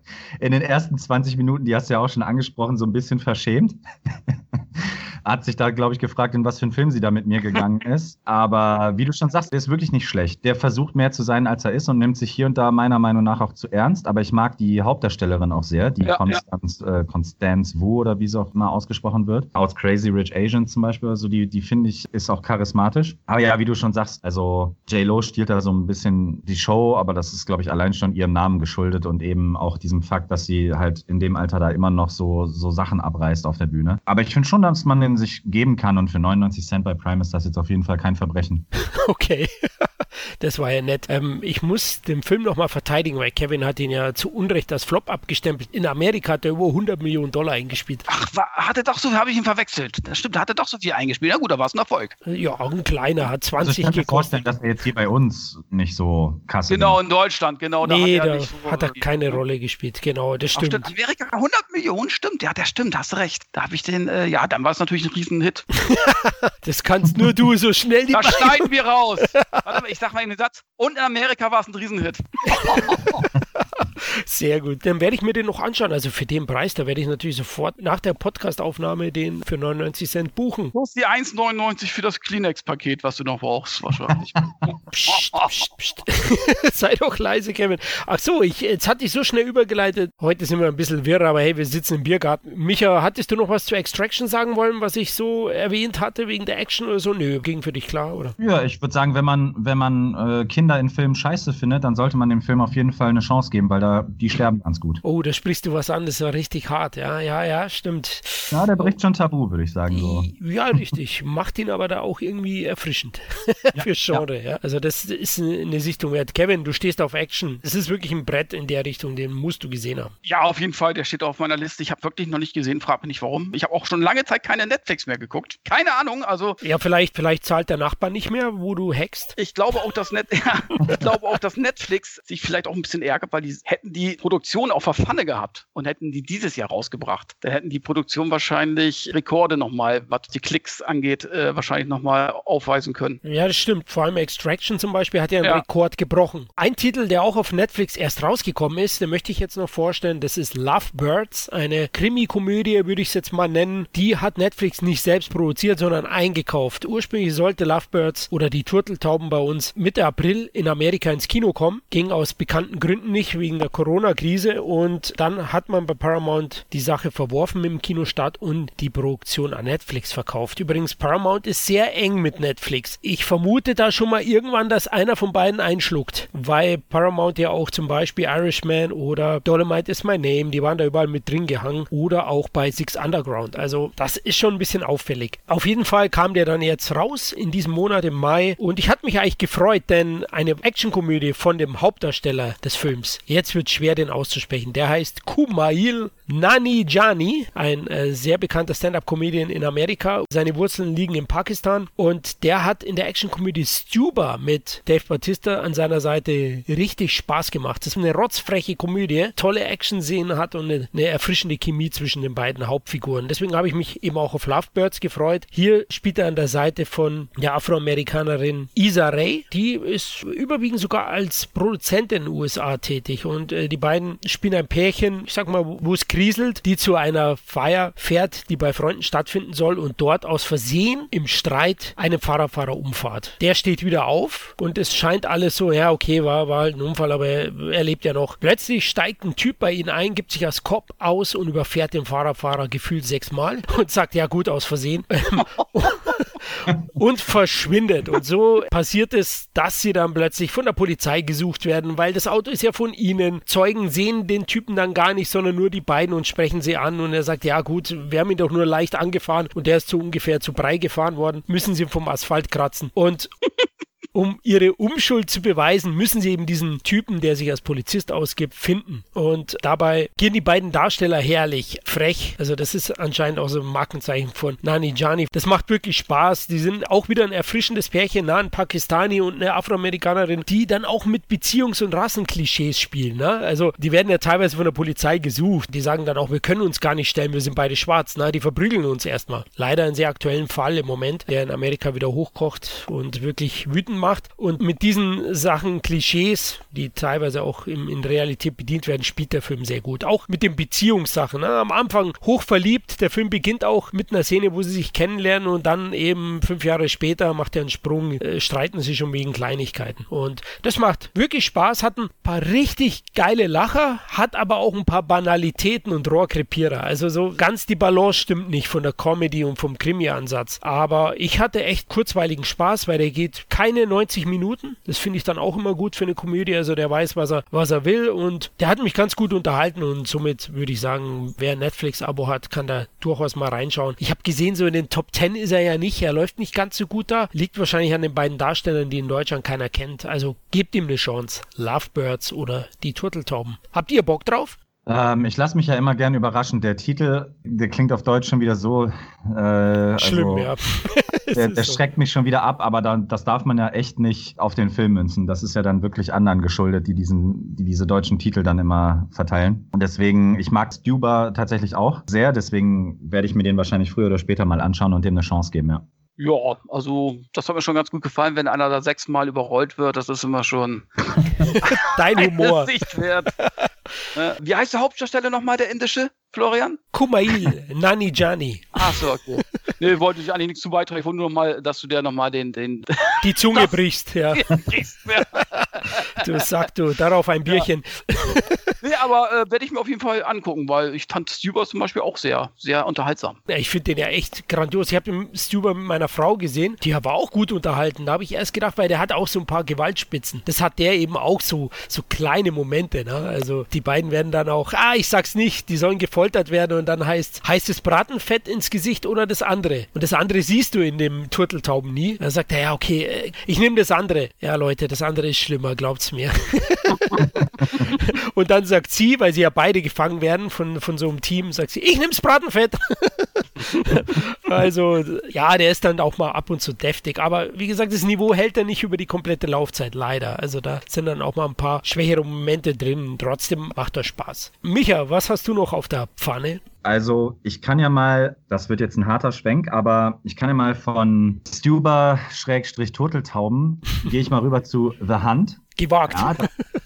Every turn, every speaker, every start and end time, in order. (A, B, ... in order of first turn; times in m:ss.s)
0:00.4-0:38.6 A
0:16.0-0:16.4 B
0:38.9-0:39.9 C
0:40.4-0:48.1 C
0:48.1-0:52.2 B
0:52.2-0:54.4 C
0:53.6-0:57.0 A
0:56.7-0:59.4 B
0:57.8-1:00.9 C
1:00.6-1:05.7 B
1:05.8-1:08.7 C
1:08.1-1:13.2 B
1:09.3-1:09.6 C
1:12.5-1:20.7 C
1:20.7-1:24.3 B
1:24.3-1:24.7 A
1:24.9-1:38.4 C
1:25.1-1:25.5 B
1:38.4-1:45.0 A
1:45.0-1:48.9 C
1:48.5-1:50.8 A
1:49.9-2:00.1 C
1:53.7-1:54.2 A
2:00.2-2:06.6 B
2:06.6-2:09.3 C
2:09.4-2:23.2 B
2:23.2-4:23.3 C
4:24.1-5:44.6 C
5:44.8-5:50.5 A
5:50.0-5:51.8 C
5:51.3-6:05.8 A
6:06.2-6:13.3 B
6:11.4-6:12.8 C
6:14.1-6:16.8 B
6:16.9-6:19.0 C
6:18.8-6:23.8 B
6:23.2-6:24.6 C
6:24.3-6:26.4 B
6:25.3-6:28.7 C
6:28.8-6:33.4 B
6:33.5-7:16.6 C
7:16.8-7:26.5 A
7:25.8-7:26.5 C